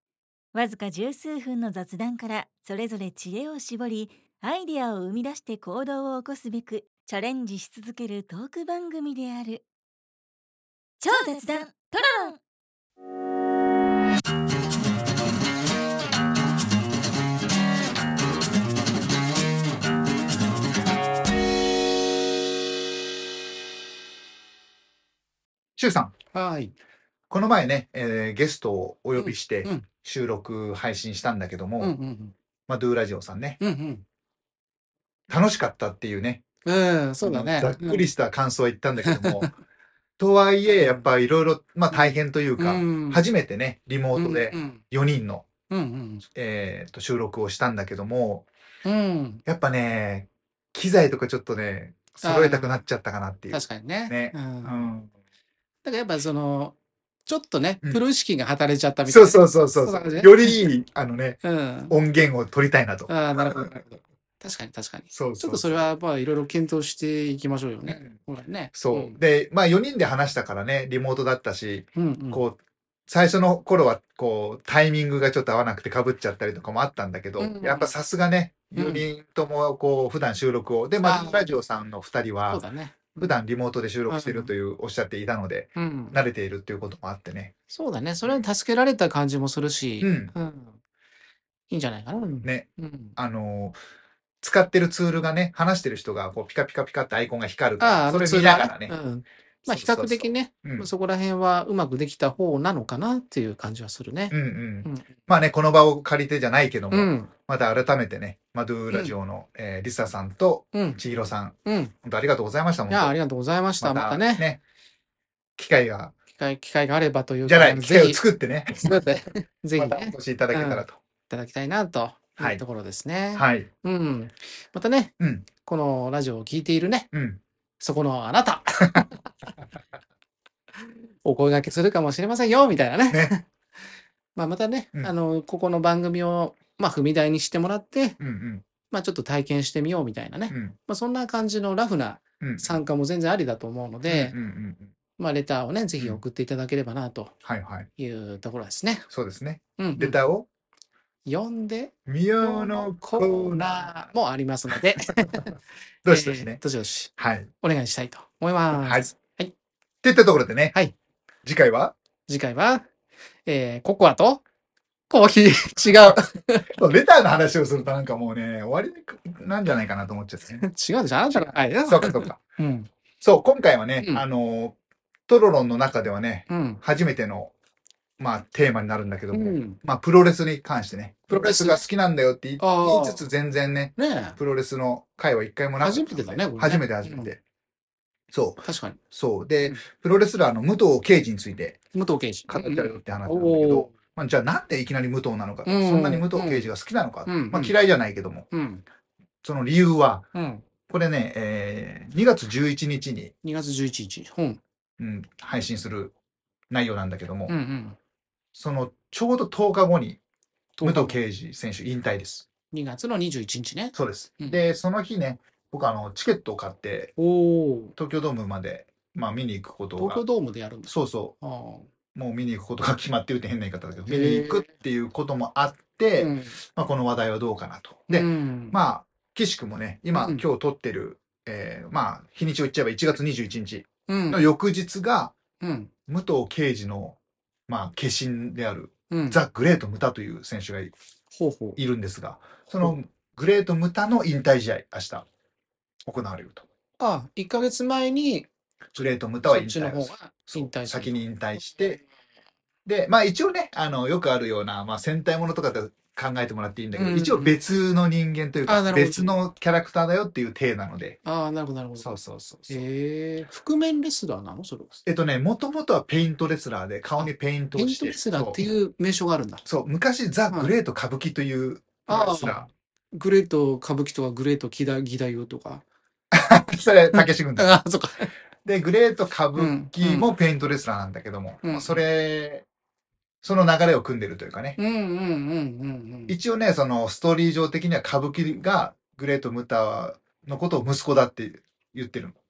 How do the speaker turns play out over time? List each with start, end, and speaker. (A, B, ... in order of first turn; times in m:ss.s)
0:00.5-0:09.6 A
0:11.0-0:12.4 A
0:25.8-0:26.1 B
0:26.3-0:26.8 C
0:27.3-0:32.0 B
0:29.2-0:29.8 C
0:31.8-0:32.3 C
0:32.7-0:33.6 B
0:33.6-0:34.0 C
0:35.3-0:36.4 B
0:36.7-0:38.1 C
0:37.2-0:39.5 B
0:39.0-0:39.5 C
0:40.2-0:45.5 B
0:40.7-0:41.1 C
0:41.9-0:43.3 C
0:44.1-0:44.8 C
0:45.7-0:46.3 C
0:46.4-0:48.5 B
0:48.8-0:49.4 C
0:49.5-0:55.1 B
0:52.2-0:52.8 C
0:53.5-0:54.9 C
0:55.8-1:00.7 C
0:59.1-1:03.7 B
1:01.4-1:02.0 C
1:03.1-1:09.2 C
1:05.1-1:05.8 B
1:07.9-1:08.2 B
1:08.8-1:22.6 B
1:12.0-1:12.4 C
1:17.4-1:18.0 C
1:18.8-1:19.0 C
1:21.0-1:21.6 C
1:22.5-1:23.4 C
1:23.2-1:27.5 B
1:24.1-1:24.5 C
1:25.8-1:26.2 C
1:27.7-1:30.8 C
1:30.0-1:30.3 B
1:31.7-1:33.2 C
1:32.4-1:33.8 B
1:34.4-1:38.9 B
1:37.8-1:45.1 C
1:39.7-1:40.9 B
1:44.3-1:53.2 B
1:46.9-1:47.3 C
1:48.9-1:49.2 C
1:50.7-1:51.0 C
1:51.7-1:52.0 C
1:52.9-1:54.5 C
1:53.8-1:54.6 B
1:55.6-1:56.2 B
1:56.4-1:58.2 C
1:57.4-1:59.0 B
1:58.8-2:07.1 C
1:59.8-2:01.0 B
2:03.3-2:03.7 B
2:05.2-2:05.5 B
2:07.1-2:07.4 B
2:07.8-2:09.3 C
2:10.8-2:13.5 C
2:13.1-2:13.3 B
2:14.4-2:18.2 C
2:18.2-2:18.6 B
2:18.9-2:24.4 C
2:20.5-2:20.8 B
2:22.4-2:22.8 B
2:24.1-2:24.9 B
2:25.2-2:27.3 C
2:27.4-2:27.9 B
2:28.0-2:29.1 C
2:29.1-2:30.5 B
2:29.8-2:30.3 C
2:31.2-2:35.5 C
2:32.1-2:33.9 B
2:36.0-2:36.6 B
2:36.1-2:39.6 C
2:37.2-2:37.5 B
2:38.7-2:39.1 B
2:40.0-2:40.8 B
2:41.4-2:42.0 B
2:42.3-2:42.9 C
2:43.5-2:44.4 C
2:45.1-2:46.7 C
2:46.8-2:50.7 B
2:50.6-2:52.9 C
2:51.3-2:52.4 B
2:53.2-2:57.5 B
2:54.0-2:54.3 C
2:56.5-2:56.8 C
2:58.2-3:07.4 B
2:59.3-2:59.8 C
3:01.3-3:01.8 C
3:02.6-3:03.3 C
3:04.0-3:04.4 C
3:05.8-3:07.4 C
3:08.3-3:11.8 B
3:08.6-3:09.0 C
3:11.9-3:13.9 C
3:12.5-3:18.5 B
3:15.7-3:16.7 C
3:17.3-3:17.8 C
3:18.5-3:18.8 C
3:19.4-3:20.3 B
3:20.3-3:20.6 C
3:20.9-3:23.3 B
3:23.4-3:24.6 C
3:25.0-3:26.1 B
3:26.7-3:27.6 B
3:27.5-3:28.0 C
3:28.6-3:30.2 B
3:30.8-3:31.2 C
3:30.8-3:32.5 B
3:32.7-3:34.6 C
3:33.9-3:37.1 B
3:37.2-3:38.0 C
3:38.0-3:40.2 B
3:40.0-3:41.9 C
3:40.9-3:41.4 B
3:42.2-3:55.4 B
3:44.1-3:44.7 C
3:46.2-3:46.6 C
3:48.1-3:48.8 C
3:50.1-3:50.5 C
3:54.1-3:54.4 C
3:55.6-3:55.9 C
3:56.1-4:01.0 B
3:59.1-3:59.4 C
4:01.3-4:01.8 C
4:01.8-4:05.3 B
4:06.0-4:06.6 B
4:07.0-4:08.5 C
4:09.0-4:12.0 B
4:09.4-4:11.2 C
4:11.7-4:12.0 C
4:12.9-4:21.2 B
4:16.9-4:17.6 C
4:18.7-4:19.4 C
4:21.2-4:22.2 C
4:22.0-4:22.9 B
4:22.7-4:25.0 C
4:25.0-4:28.7 B
4:27.2-4:29.6 C
4:29.6-4:32.7 B
4:30.5-4:30.8 C
4:32.1-4:35.8 C
4:36.3-4:37.8 B
4:37.1-4:38.3 C
4:38.6-4:42.6 B
4:39.5-4:40.3 C
4:41.6-4:42.1 C
4:43.4-4:44.8 B
4:44.8-4:46.4 C
4:46.3-4:52.4 B